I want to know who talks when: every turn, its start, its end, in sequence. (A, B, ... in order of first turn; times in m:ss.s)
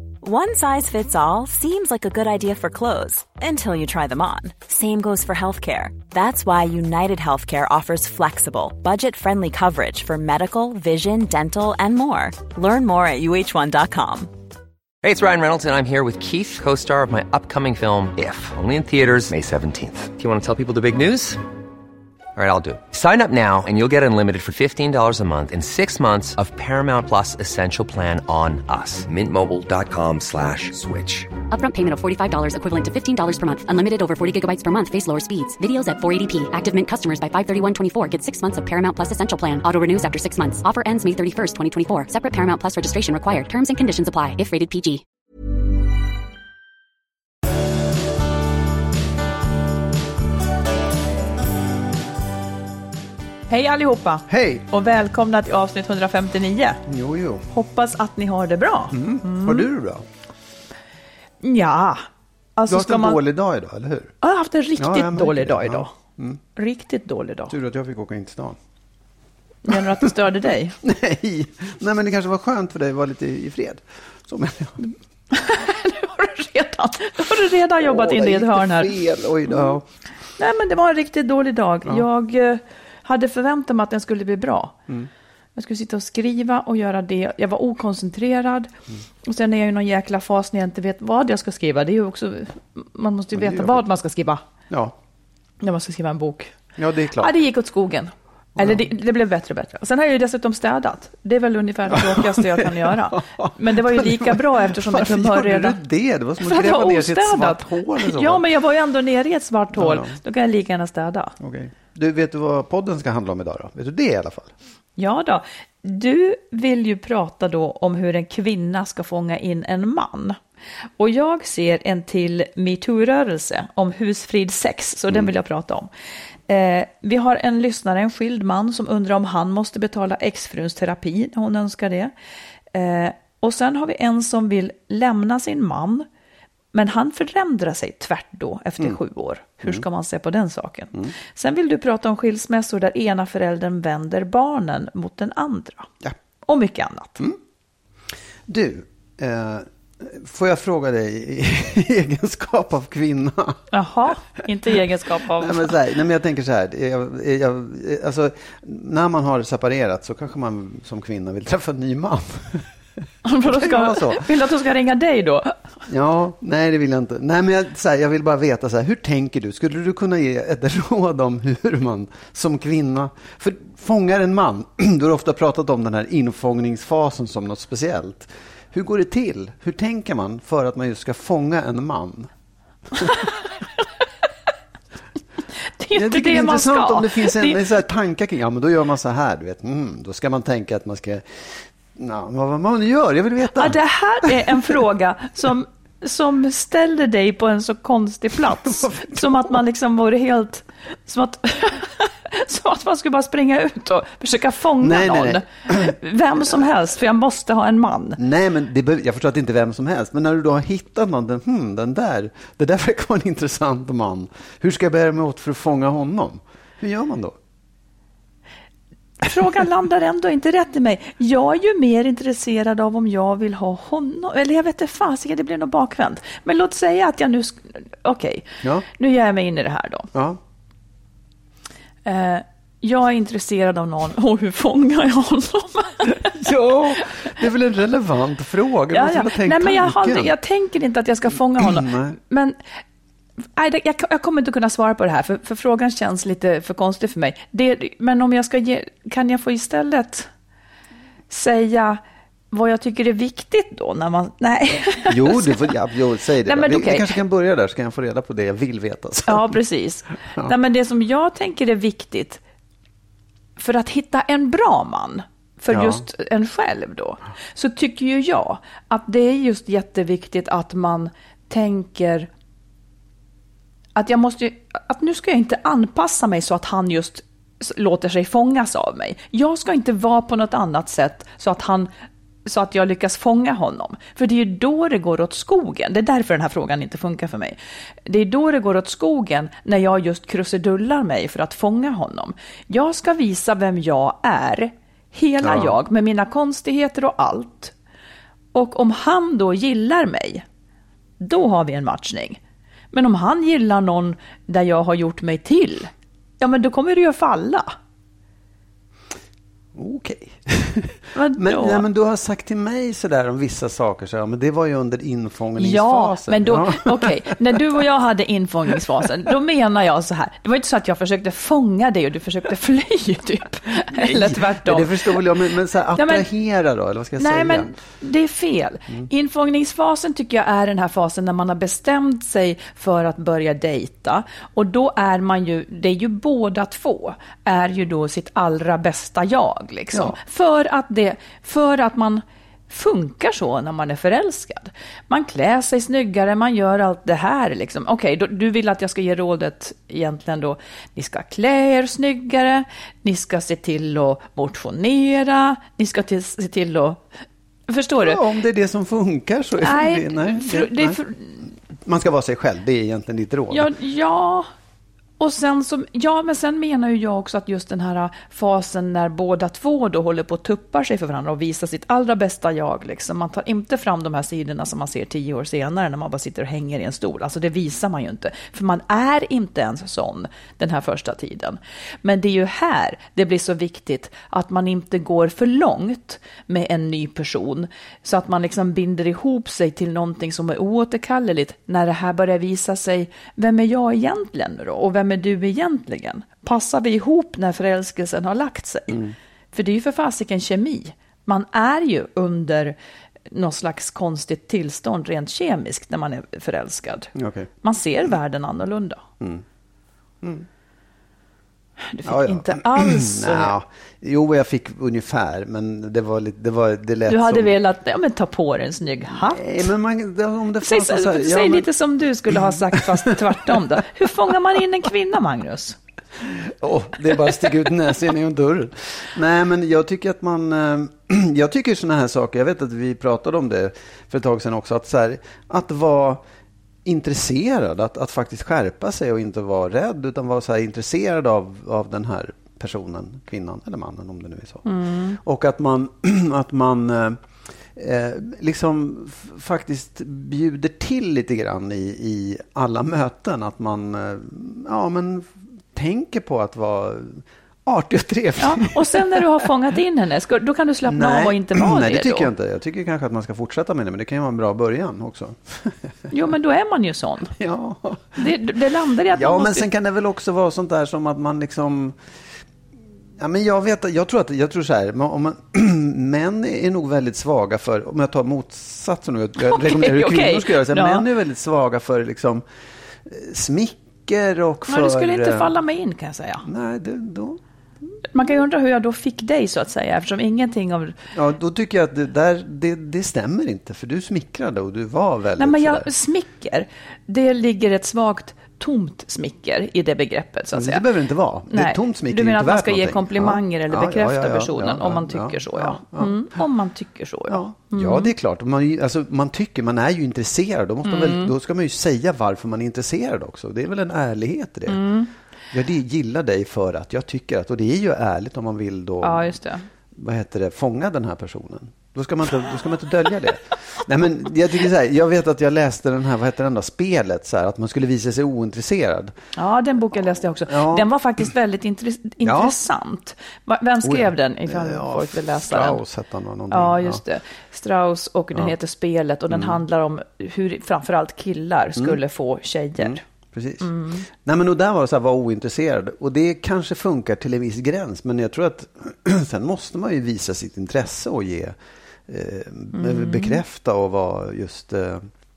0:00.2-0:14.3 A
0:15.0-0:21.4 B
0:22.4-0:31.4 B
0:31.5-0:45.0 C
0:53.5-0:56.8 D
0:54.3-0:54.6 E
0:56.9-0:57.5 E
0:57.5-0:59.7 D
0:58.9-1:00.0 E
1:01.4-1:02.0 D
1:02.6-1:03.2 D
1:02.7-1:04.1 E
1:04.2-1:05.9 D
1:04.8-1:06.4 E
1:06.6-1:07.5 D
1:07.5-1:08.6 E
1:09.6-1:10.8 D
1:09.7-1:10.1 E
1:10.8-1:14.8 E
1:15.3-1:19.8 D
1:17.8-1:19.8 E
1:20.4-1:24.8 D
1:25.6-1:34.4 D
1:33.3-1:33.8 E
1:34.7-1:34.9 E
1:35.6-1:36.5 D
1:36.8-1:37.3 E
1:37.2-1:45.8 D
1:38.6-1:38.9 E
1:41.9-1:48.4 E
1:46.4-1:51.3 D
1:49.7-1:50.2 E
1:51.4-1:54.5 E
1:55.0-2:00.4 D
2:01.0-2:05.9 D
2:06.5-2:12.1 D
2:12.7-2:16.1 D
2:16.7-2:25.9 D
2:26.4-2:27.2 D
2:28.5-2:33.6 E
2:33.7-2:35.7 D
2:35.4-2:42.7 E
2:43.2-2:45.5 D
2:43.4-2:44.3 E
2:45.9-3:02.3 E
3:02.9-3:03.2 E
3:05.8-3:07.6 D
3:05.9-3:14.8 E
3:13.6-3:28.2 D
3:18.5-3:19.6 E
3:24.8-3:26.7 E
3:28.2-3:37.4 E
3:39.2-3:50.1 D
3:50.1-3:50.4 E
3:52.0-3:57.2 D
3:56.1-4:00.3 E
3:58.9-4:02.7 D
4:01.6-4:02.2 E
4:03.6-4:10.3 D
4:11.3-4:12.0 D
4:12.5-4:15.7 D
4:15.1-4:19.6 E
4:16.4-4:17.2 D
4:19.3-4:22.4 D
4:23.6-4:32.3 D
4:25.7-4:26.0 E
4:34.0-4:41.9 D
4:42.4-4:57.7 D
4:55.4-4:55.7 E
4:58.5-5:00.4 D
5:01.2-5:02.4 D
5:02.9-5:07.7 D
5:09.7-5:17.4 E
5:11.1-5:11.8 D
5:15.6-5:25.2 D
5:23.9-5:27.8 E
5:26.0-5:26.3 D
5:27.2-5:57.0 D
5:57.7-5:58.2 D
5:58.0-6:01.0 E
5:59.6-6:01.4 D
6:01.8-6:03.7 E
6:03.5-6:04.5 D
6:05.2-6:39.0 D
6:38.9-6:39.1 E
6:39.5-6:42.8 D
6:43.3-6:49.0 D
6:47.1-6:47.5 E
6:50.2-6:50.5 E
6:51.8-6:53.6 D
6:52.0-6:57.5 E
6:57.0-6:59.7 D
6:59.1-7:01.7 E
7:00.6-7:05.8 D
7:02.8-7:03.6 E
7:06.2-7:16.2 E
7:16.8-7:24.6 E
7:24.6-7:25.2 D
7:25.2-7:39.3 E
7:38.4-7:42.3 D
7:40.8-7:45.9 E
7:46.1-7:47.3 D
7:47.3-7:48.2 E
7:48.2-7:49.6 D
7:49.1-7:52.0 E
7:53.2-8:02.4 E
7:59.4-8:01.0 D
8:03.0-8:05.5 E
8:04.7-8:06.4 D
8:06.4-8:07.4 E
8:08.1-8:11.0 D
8:11.1-8:15.9 E
8:15.4-8:20.8 D
8:20.5-8:26.3 E
8:21.5-8:28.1 D
8:27.3-8:34.8 E
8:30.8-8:31.3 D
8:34.7-8:35.1 D
8:35.5-8:39.4 E
8:39.0-8:39.7 D
8:39.9-8:49.2 E
8:49.4-8:55.8 D
8:50.5-8:50.9 E
8:52.2-8:52.5 E
8:53.8-8:57.0 E
8:56.5-9:03.0 D
8:59.3-8:59.6 E
9:02.8-9:15.1 E
9:03.6-9:04.0 D
9:12.7-9:13.4 D